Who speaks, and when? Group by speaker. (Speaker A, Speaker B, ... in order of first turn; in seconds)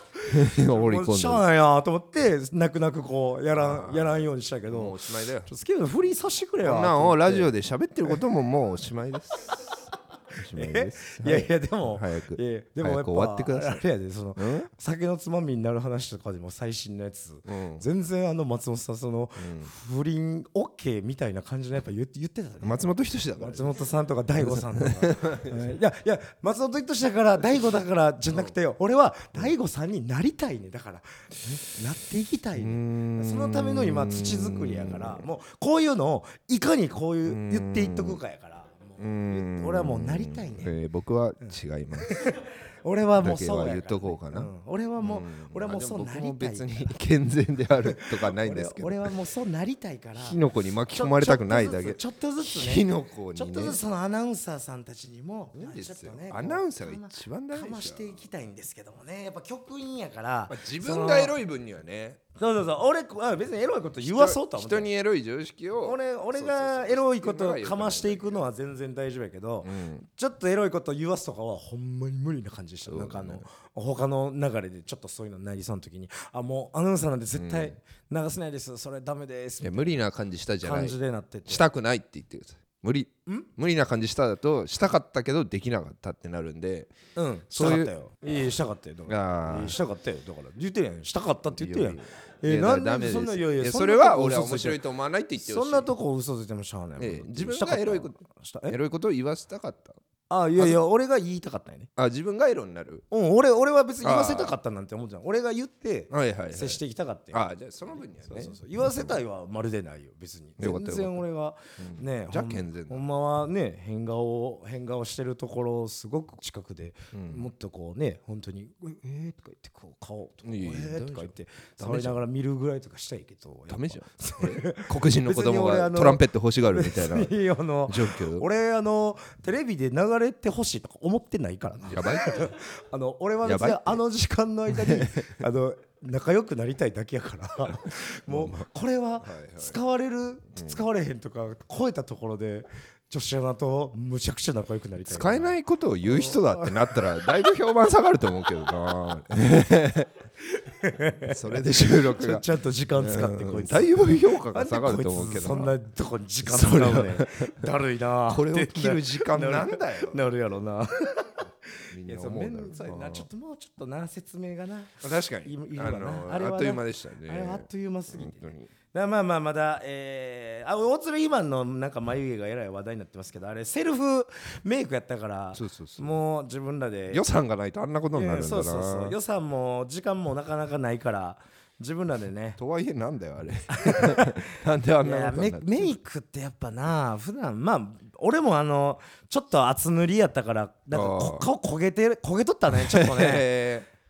Speaker A: 0.2-7.5, 10.5-40.7, 41.4-46.9, 47.9-50.4, 50.9-61.4, 62.4-64.9, 65.8-80.0, 80.6-81.6, 87.2-94.8, 95.4-98.8, 100.3-101.9, 103.1-107.4, 108.2-147.4, 150.4-177.2, 178.1-182.6, 183.7-193.5
Speaker B: 0.2-1.4, 3.5-5.5, 6.6-13.8, 14.4-14.7, 17.4-17.8, 19.4-19.7, 22.6-23.8, 24.4-25.7, 32.5-35.2, 37.2-38.2, 39.0-42.3, 43.2-49.1, 50.2-53.8, 55.6-58.2, 60.5-62.2, 64.0-68.4, 69.6-70.0, 72.9-73.5, 77.3-77.8, 79.6-81.0, 81.5-86.9, 87.5-87.9, 89.1-89.8, 91.5-95.9, 97.0-98.2, 98.7-100.0, 102.0-103.0, 104.0-104.6, 106.1-106.8, 107.3-109.2, 110.6-111.2, 111.8-113.1, 117.1-117.5, 120.4-122.2, 123.7-127.3, 127.9-128.4, 131.8-132.5, 133.4-134.0, 134.7-135.3, 138.3-138.6, 139.2-139.8, 145.1-150.1, 151.2-155.7, 156.4-157.7, 158.2-160.2, 161.9-163.3, 165.0-168.7, 175.5-176.1, 177.1-179.2, 182.6-185.9, 190.9-191.5, 192.7-193.9